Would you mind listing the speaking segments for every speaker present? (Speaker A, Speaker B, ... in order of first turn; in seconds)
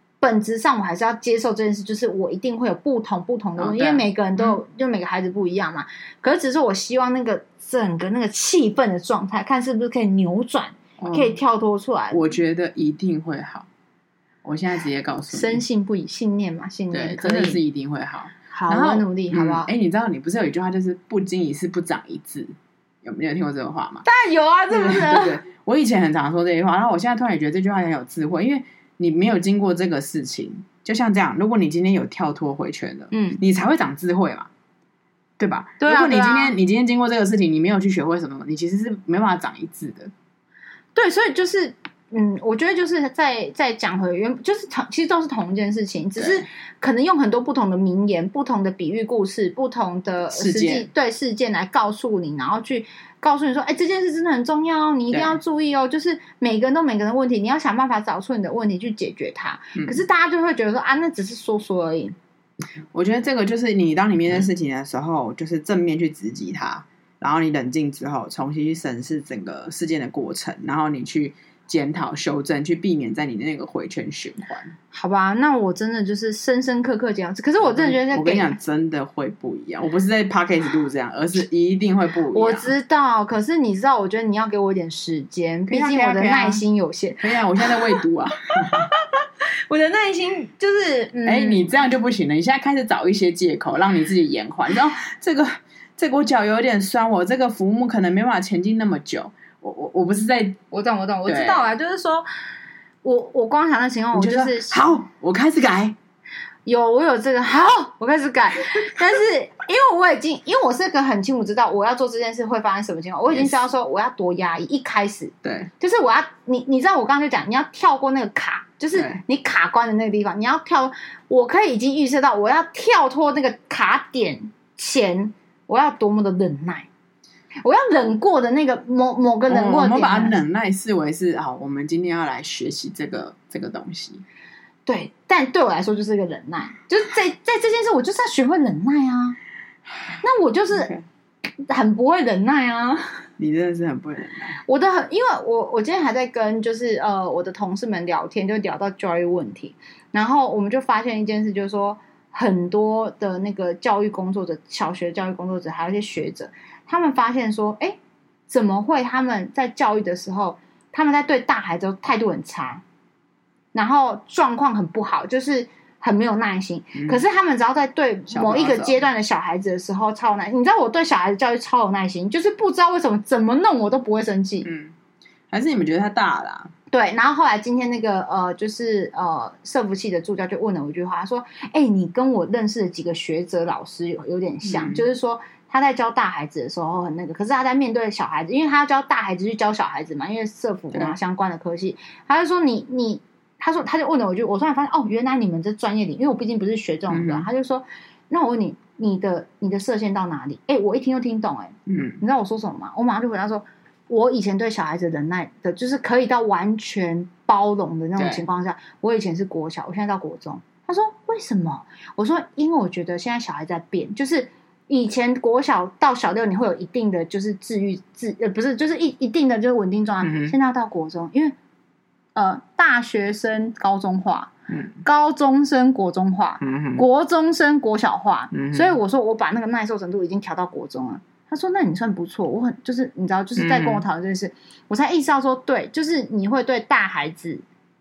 Speaker A: 0.2-12.2, 15.3-17.6, 18.5-19.7, 24.1-25.4, 33.1-33.4, 35.8-36.6, 41.0-62.1, 74.9-78.6, 82.3-88.0, 88.6-91.8, 100.7-102.3, 103.0-104.8, 106.7-126.9, 127.6-130.4, 134.9-139.4, 140.2-140.9, 141.6-143.2, 144.7-162.8, 163.7-174.7, 176.9-221.6, 222.3-224.5, 225.0-237.6
Speaker B: 3.6-4.6, 11.0-11.3, 12.1-13.7, 14.4-15.6, 16.9-24.1, 24.7-34.5, 35.4-40.1, 46.2-46.5, 50.3-50.9, 55.1-55.4, 59.8-60.0, 62.9-74.7, 77.6-82.7, 85.7-86.6, 87.2-88.9, 91.2-100.6, 101.3-101.6, 104.2-106.0, 113.3-113.6, 115.4-115.7, 118.9-119.2, 129.5-134.2, 140.7-141.1, 143.4-144.6, 168.3-169.0, 174.6-174.9, 175.5-176.7, 184.6-185.0, 197.1-197.5, 201.9-202.2, 208.2-208.4, 220.2-220.5, 224.7-225.0, 226.6-227.1, 228.5-228.9, 233.6-234.0